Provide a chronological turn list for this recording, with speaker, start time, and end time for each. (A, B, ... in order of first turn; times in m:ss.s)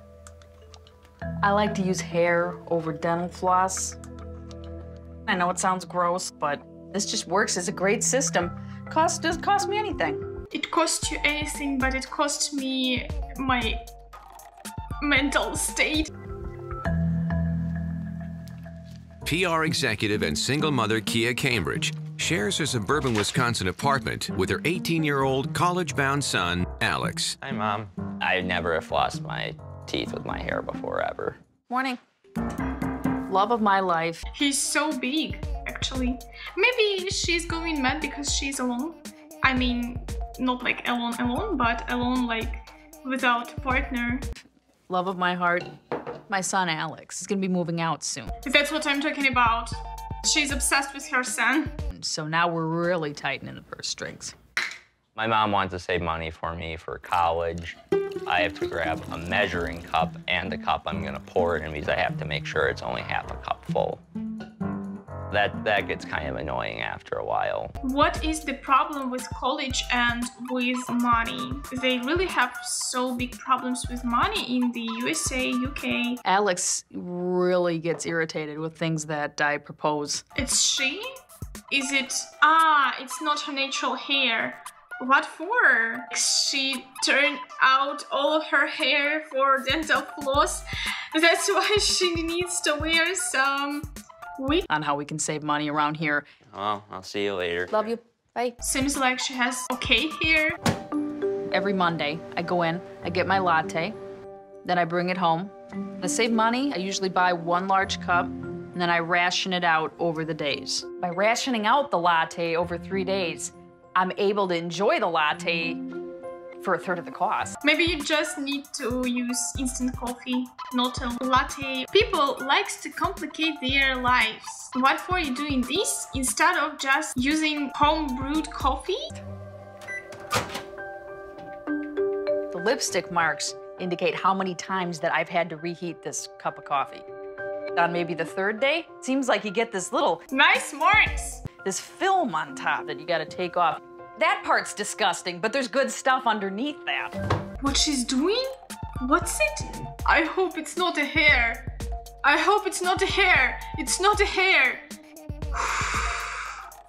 0:01.4-0:04.0 A
0:05.2-0:10.2 A
0:10.5-0:13.8 B
0:15.0-0:16.1 B
0:19.2-0:27.4 C
0:27.4-0:31.4 D
0:31.7-0:32.0 A
0:33.3-0:34.2 A
0:34.3-0:44.3 B
0:44.9-0:45.7 A
0:46.3-0:48.4 A
0:48.4-0:51.8 B
0:51.9-0:54.3 A
0:55.2-1:04.0 D
1:05.3-1:07.7 D
1:07.8-1:16.2 B
1:16.2-1:20.2 A
1:20.4-1:21.1 B
1:21.7-1:34.7 B
1:34.7-1:36.3 A
1:36.5-1:38.0 D
1:37.7-1:38.6 A
1:38.6-1:40.6 B
1:41.5-1:44.0 A
1:44.6-1:55.8 A
1:56.6-1:57.6 A
1:57.6-2:09.0 B
2:12.5-2:17.0 A
2:17.7-2:20.2 A
2:20.3-2:21.4 B
2:21.6-2:27.1 A
2:27.6-2:31.6 B
2:32.2-2:34.8 B
2:35.5-2:36.5 B